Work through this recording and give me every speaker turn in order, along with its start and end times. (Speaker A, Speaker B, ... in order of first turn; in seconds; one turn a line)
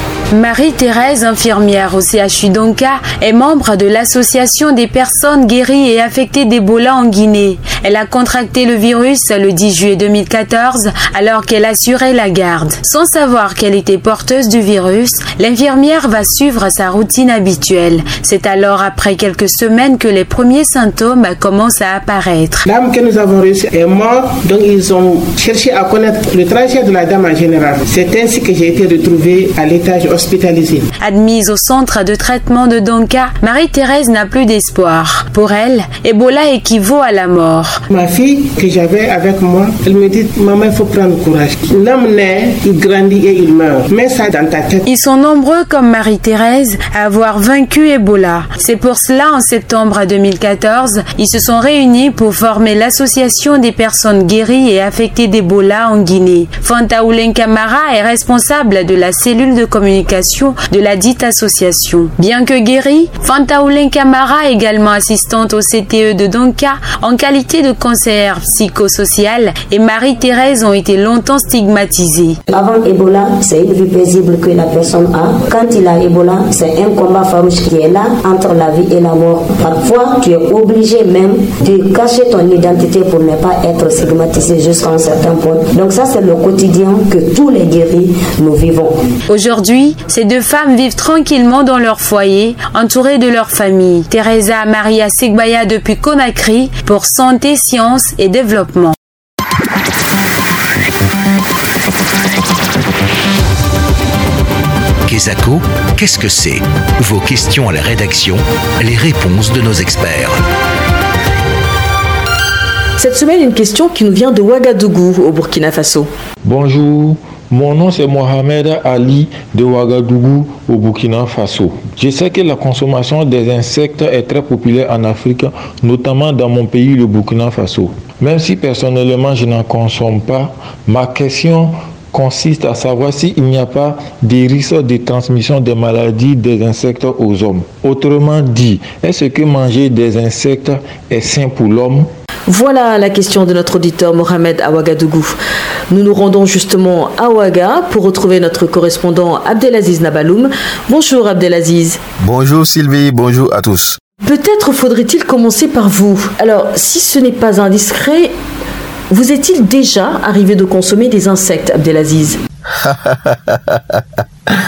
Speaker A: 0.3-22.6
Speaker B: 22.7-30.8
Speaker A: 31.0-37.8
Speaker B: 37.9-44.8
Speaker A: 44.8-72.4
Speaker C: 73.4-73.7
Speaker C: 75.0-75.8
Speaker C: 76.4-77.0
Speaker C: 78.8-79.9
Speaker C: 80.4-81.3
Speaker C: 82.4-88.8
Speaker A: 89.3-99.0
Speaker D: 105.0-110.4
Speaker E: 113.0-116.1
Speaker F: 116.4-142.1
Speaker E: 142.5-145.4
Speaker E: 145.9-152.0
Speaker G: 152.2-154.0
Speaker E: 154.2-158.3
Speaker E: 159.1-162.4
Speaker G: 162.8-164.0